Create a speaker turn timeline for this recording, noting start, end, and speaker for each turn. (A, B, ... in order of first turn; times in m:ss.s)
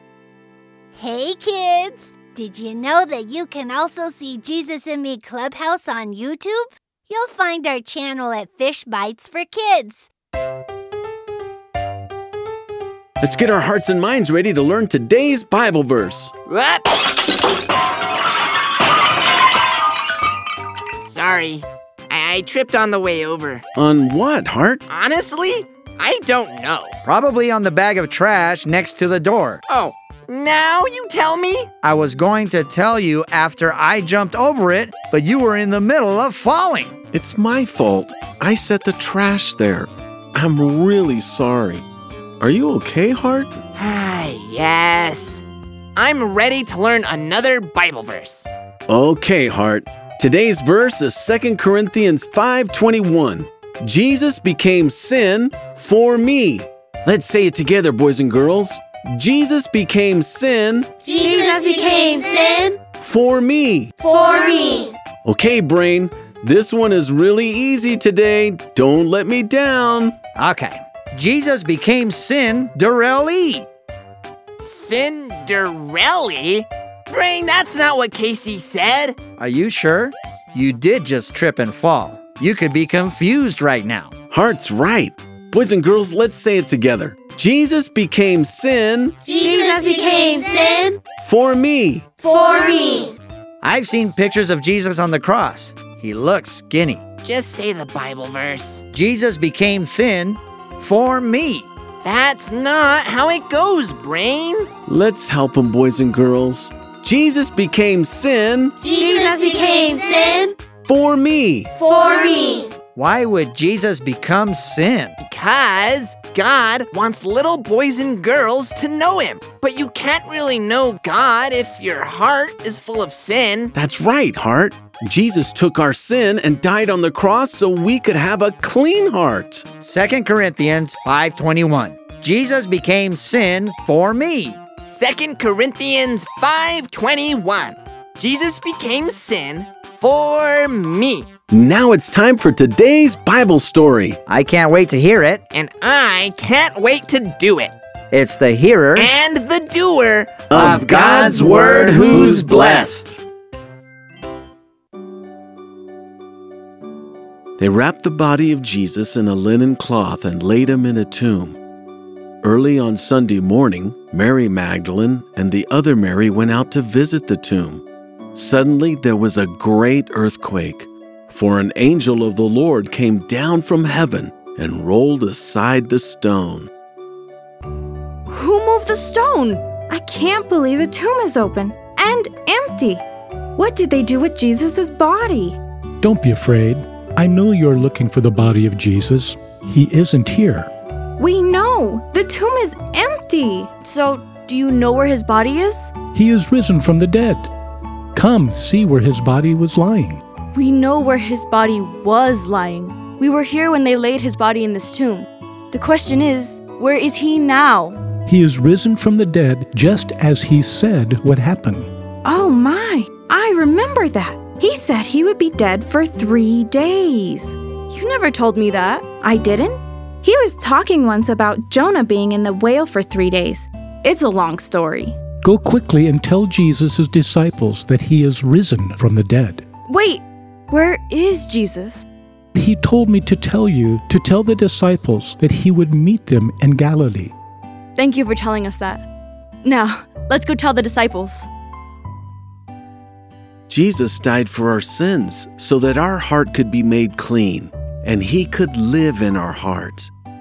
0:01.0-0:10.1 A
0:13.2-0:16.3 B
0:16.5-0:17.1 C
0:21.0-0:23.6 C
0:23.8-0:24.8 B
0:24.9-0:27.0 C
0:27.0-0:29.6 D
0:29.7-0:31.7 C
0:31.8-0:36.9 D
0:37.1-0:41.8 B
0:42.4-0:43.6 B
0:43.8-0:45.4 C
0:46.0-0:48.5 C
0:48.9-1:00.9 B
1:01.0-1:02.8 E
1:03.0-1:03.9 B
1:04.0-1:04.9 E
1:05.2-1:10.2 B
1:10.4-1:13.7 D
1:14.6-1:19.2 C
1:19.3-1:24.1 D
1:24.3-1:29.2 B
1:29.3-1:31.0 E
1:31.2-1:32.1 B
1:32.2-1:33.1 E
1:33.6-1:37.1 D
1:37.2-1:38.8 C
1:38.9-1:41.7 D
1:42.0-1:44.7 C
1:44.9-1:48.8 B
1:48.8-1:50.5 E
1:50.8-1:51.7 B
1:51.8-1:52.7 E
1:53.0-1:55.2 D
1:55.2-2:03.7 C
2:03.7-2:09.6 B
2:09.8-2:14.6 D
2:14.8-2:21.3 C
2:21.5-2:24.2 B
2:24.3-2:25.5 D
2:25.5-2:27.7 C
2:28.1-2:29.1 D
2:29.0-2:32.8 C
2:30.5-2:33.0 B
2:30.5-2:33.0 D
2:37.6-2:41.6 B
2:42.4-2:56.7 B
2:58.3-2:59.7 F
2:59.8-3:03.0 G
3:03.6-3:05.6 G
3:06.0-3:10.7 H
3:11.2-3:13.8 G
3:13.8-3:15.9 F
3:16.1-3:17.5 H
3:18.2-3:20.2 H
3:20.5-3:28.0 F
3:28.3-3:31.9 H
3:32.2-3:37.6 G
3:37.9-3:39.1 F
3:39.2-3:45.2 G
3:45.4-3:49.6 H
3:49.9-3:52.0 F
3:52.6-3:57.3 H
3:58.0-3:59.0 F
3:59.6-4:01.5 F
4:03.7-4:10.1 B